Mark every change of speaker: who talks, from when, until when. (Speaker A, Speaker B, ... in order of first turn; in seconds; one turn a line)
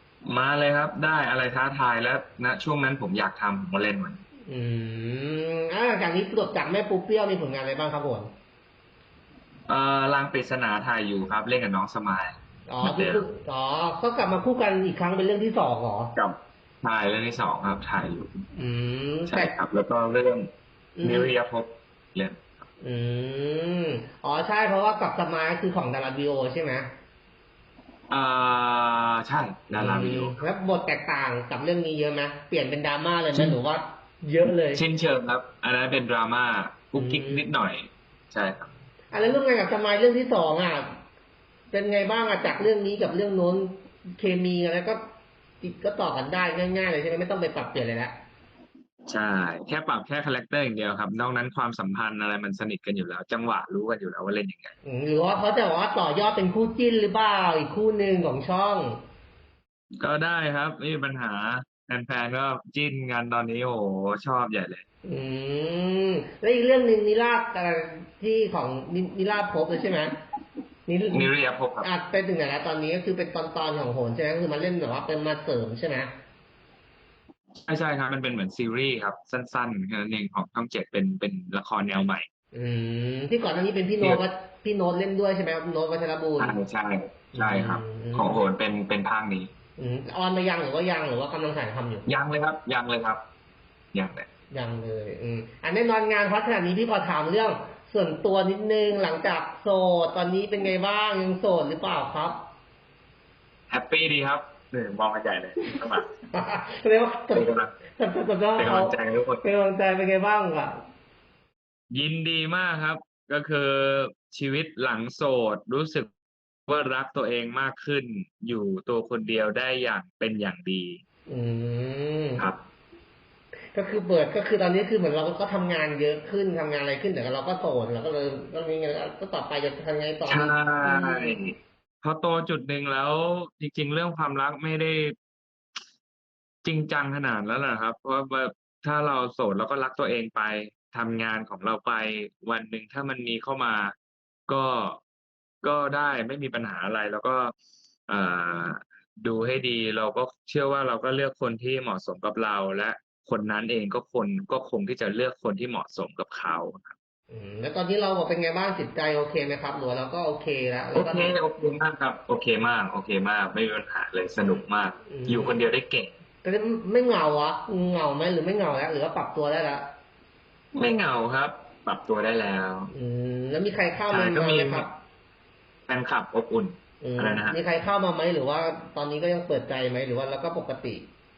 Speaker A: 0.2-4.2
Speaker B: 4.5-8.3
Speaker A: 9.7-13.3
Speaker B: 12.7-16.1
Speaker A: 16.1-18.3
Speaker B: 18.5-19.5
Speaker A: 19.2-20.5
Speaker B: 21.0-21.3
Speaker A: 21.0-22.4
Speaker B: 22.8-26.9
Speaker A: 28.1-30.4
Speaker B: 29.7-34.8
Speaker A: 34.7-38.7
Speaker B: 37.0-37.5
Speaker B: 39.1-41.0
Speaker B: 41.7-45.0
Speaker B: 45.6-48.2
Speaker A: 49.0-54.7
Speaker B: 54.8-59.0
Speaker A: 60.0-64.8
Speaker B: 65.0-70.2
Speaker B: 70.9-76.1
Speaker A: 71.1-71.9
Speaker A: 77.6-82.2
Speaker B: 82.5-86.6
Speaker A: 86.4-89.5
Speaker B: 87.3-88.4
Speaker B: 89.8-92.1
Speaker A: 92.0-93.2
Speaker A: 93.9-94.2
Speaker B: 94.5-102.4
Speaker A: 103.7-106.1
Speaker B: 106.3-110.8
Speaker A: 107.3-107.7
Speaker A: 108.5-109.4
Speaker A: 111.9-116.1
Speaker A: 116.7-121.0
Speaker B: 121.3-122.5
Speaker B: 123.7-131.4
Speaker A: 130.3-135.2
Speaker A: 136.6-143.9
Speaker A: 144.5-145.0
Speaker A: 145.6-147.5
Speaker A: 148.1-156.9
Speaker B: 157.3-161.4
Speaker A: 160.9-166.1
Speaker B: 165.1-165.6
Speaker B: 166.4-169.9
Speaker A: 170.7-172.9
Speaker B: 172.9-174.9
Speaker A: 174.1-174.9
Speaker A: 175.9-177.6
Speaker B: 177.0-181.1